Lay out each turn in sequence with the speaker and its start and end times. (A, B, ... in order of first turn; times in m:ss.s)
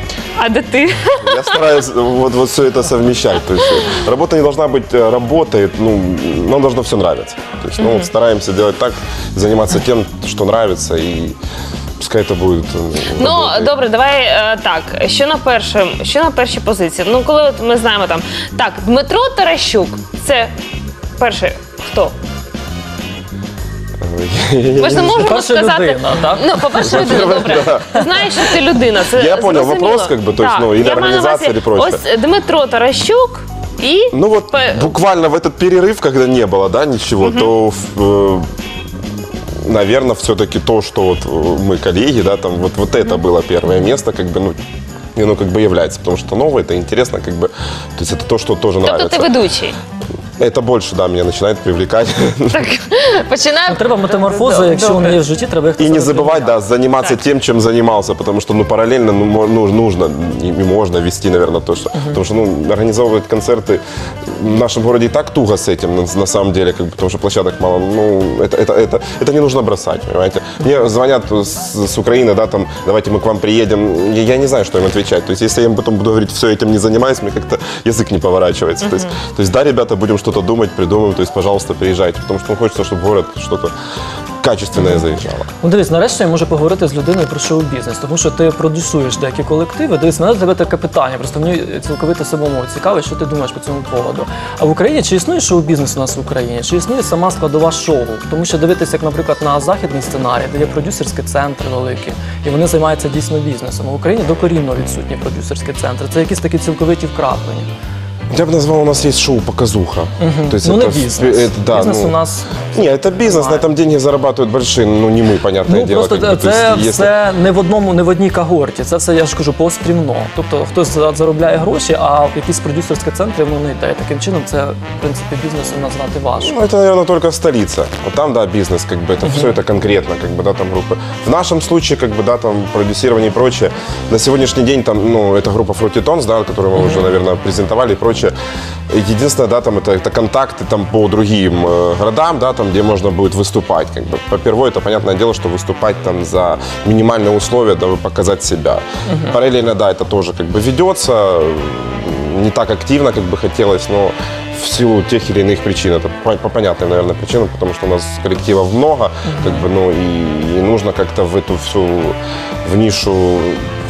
0:00.4-0:01.7 A
0:01.2-0:11.4 B
0:07.8-0:08.1 A
0:12.0-0:13.7 B
0:13.2-0:20.5 A
0:21.2-0:22.2 A
0:24.0-0:25.4 B
0:24.8-0:35.0 A
0:24.9-0:27.8 C
0:26.8-0:28.1 B
0:29.1-0:32.0 B
0:34.1-0:38.5 B
0:37.2-0:37.5 A
0:39.6-0:44.6 B
0:45.2-0:49.4 B
0:48.8-0:49.8 A
0:50.4-0:52.7 B
0:52.5-0:55.2 A
0:53.7-0:56.5 C
0:55.8-1:23.7 B
1:02.0-1:02.2 C
1:24.4-1:25.5 B
1:25.6-1:47.7 C
1:48.3-1:52.2 B
1:50.2-1:53.7 C
1:52.7-1:57.2 B
1:55.6-2:06.6 C
2:06.4-2:18.3 B
2:09.2-2:09.6 C
2:16.8-2:17.1 C
2:18.9-2:43.7 B
2:29.1-2:29.4 C
2:39.3-2:39.6 C